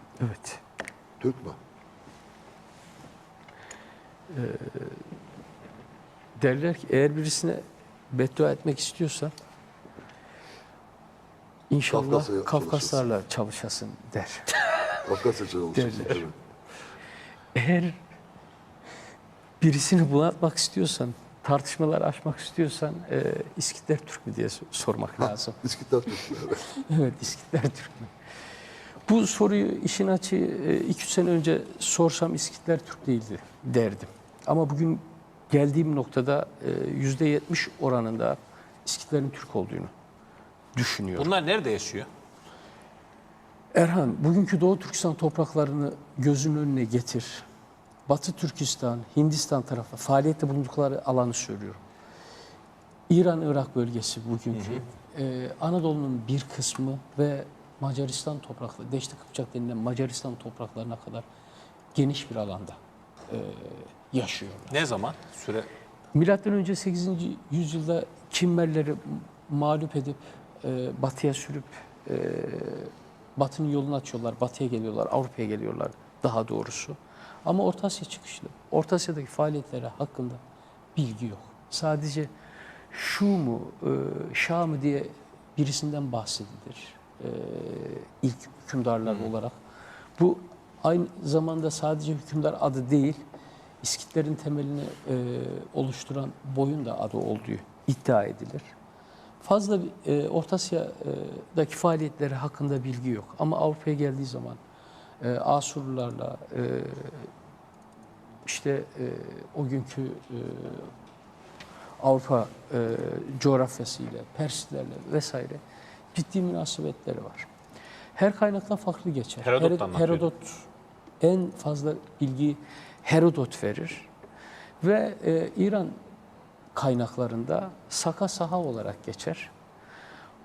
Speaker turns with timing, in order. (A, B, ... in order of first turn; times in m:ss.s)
0:00.2-0:00.6 A
0:01.2-0:01.6 B
0:04.3-0:05.1 A
0:06.4-0:09.3 A
0:11.7-0:16.3 A
0:11.9-0:13.1 B
0:15.1-0:16.3 B
0:17.5-0:18.0 A
0:19.6-0:28.1 A
0:25.2-0:26.6 B
0:29.0-0:39.9 A
0:40.7-0:41.3 A
0:41.2-0:42.1 C
0:43.7-0:47.4 A
0:48.0-0:51.8 A
0:53.1-1:01.2 A
0:54.5-0:54.8 C
1:01.9-1:02.8 A
1:03.3-1:04.7 A
1:04.7-1:05.7 C
1:06.1-1:20.4 A
1:20.9-1:22.3 A
1:22.9-1:29.6 A
1:29.0-1:29.3 C
1:30.2-1:33.2 A
1:33.8-1:38.7 A
1:39.4-1:44.6 A
1:45.2-1:47.3 A
1:48.4-1:50.9 A
1:52.0-1:55.6 A
1:56.1-1:57.5 A
1:58.1-2:00.6 A
1:59.4-2:00.3 C
2:01.2-2:04.1 A
2:04.8-2:06.0 A
2:06.7-2:09.5 A